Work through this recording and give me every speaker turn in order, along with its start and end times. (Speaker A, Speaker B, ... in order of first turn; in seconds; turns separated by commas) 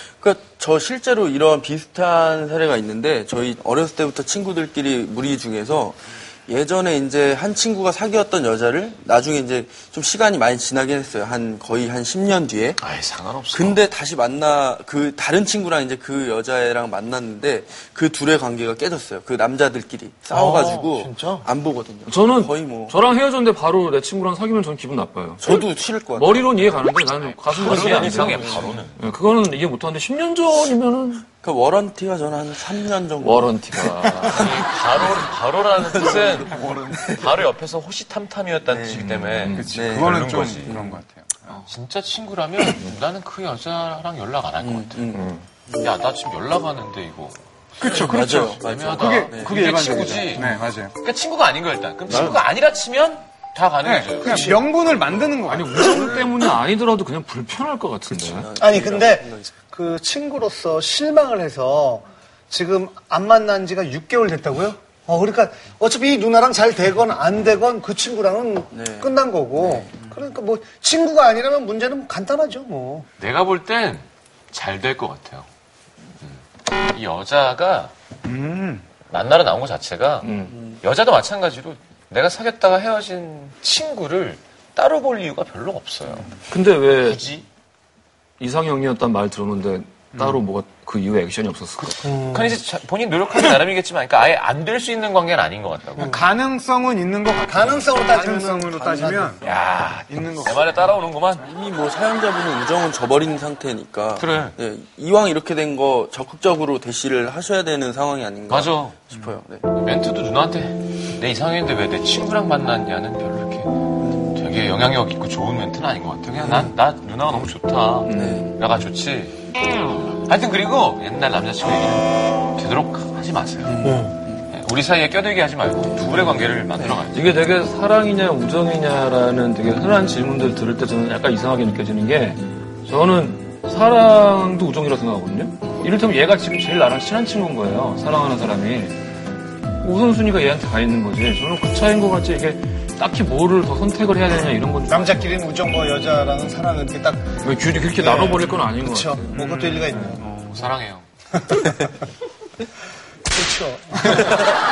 Speaker A: 0.2-12.8, Speaker B: 12.8-13.8, Speaker A: 13.5-22.9, Speaker B: 20.3-21.5, Speaker C: 22.1-25.4, Speaker A: 25.4-26.7, Speaker C: 26.1-31.2, Speaker B: 27.4-28.9, Speaker A: 27.8-28.5, Speaker A: 31.4-33.5, Speaker C: 33.2-34.6, Speaker B: 34.3-40.8, Speaker A: 35.8-37.0, Speaker A: 38.7-39.1, Speaker C: 39.0-39.7, Speaker D: 39.5-41.6, Speaker A: 39.7-41.0, Speaker B: 41.6-45.0, Speaker A: 44.6-45.9, Speaker C: 45.1-45.4, Speaker B: 45.8-54.7, Speaker A: 47.8-49.7, Speaker D: 47.8-50.9, Speaker D: 53.8-56.2, Speaker E: 54.2-54.7, Speaker A: 54.9-55.4, Speaker C: 55.4-58.5, Speaker A: 58.1-59.5, Speaker E: 58.6-73.0, Speaker A: 68.7-70.3, Speaker B: 73.2-75.5, Speaker B: 76.2-77.9, Speaker D: 78.3-78.8, Speaker B: 79.1-80.3, Speaker C: 80.2-80.6, Speaker B: 80.8-86.3, Speaker C: 86.5-87.2, Speaker B: 86.9-87.5, Speaker C: 88.4-92.0, Speaker B: 92.0-96.2, Speaker E: 92.0-92.5, Speaker D: 96.0-99.3, Speaker E: 96.0-96.2, Speaker E: 97.4-99.4, Speaker A: 98.6-99.6, Speaker B: 99.4-101.5, Speaker D: 100.0-100.7, Speaker A: 101.4-109.6, Speaker B: 104.2-104.6, Speaker B: 108.5-109.0, Speaker B: 109.7-123.9, Speaker A: 114.0-114.3, Speaker A: 116.4-116.7, Speaker C: 118.0-118.4, Speaker A: 118.1-118.6, Speaker A: 123.7-124.4, Speaker B: 124.5-127.4, Speaker A: 125.9-127.0, Speaker C: 127.1-139.0, Speaker C: 139.8-145.4, Speaker E: 144.9-147.4, Speaker C: 147.4-150.2, Speaker E: 147.9-150.2, Speaker B: 150.5-151.0, Speaker E: 153.3-154.4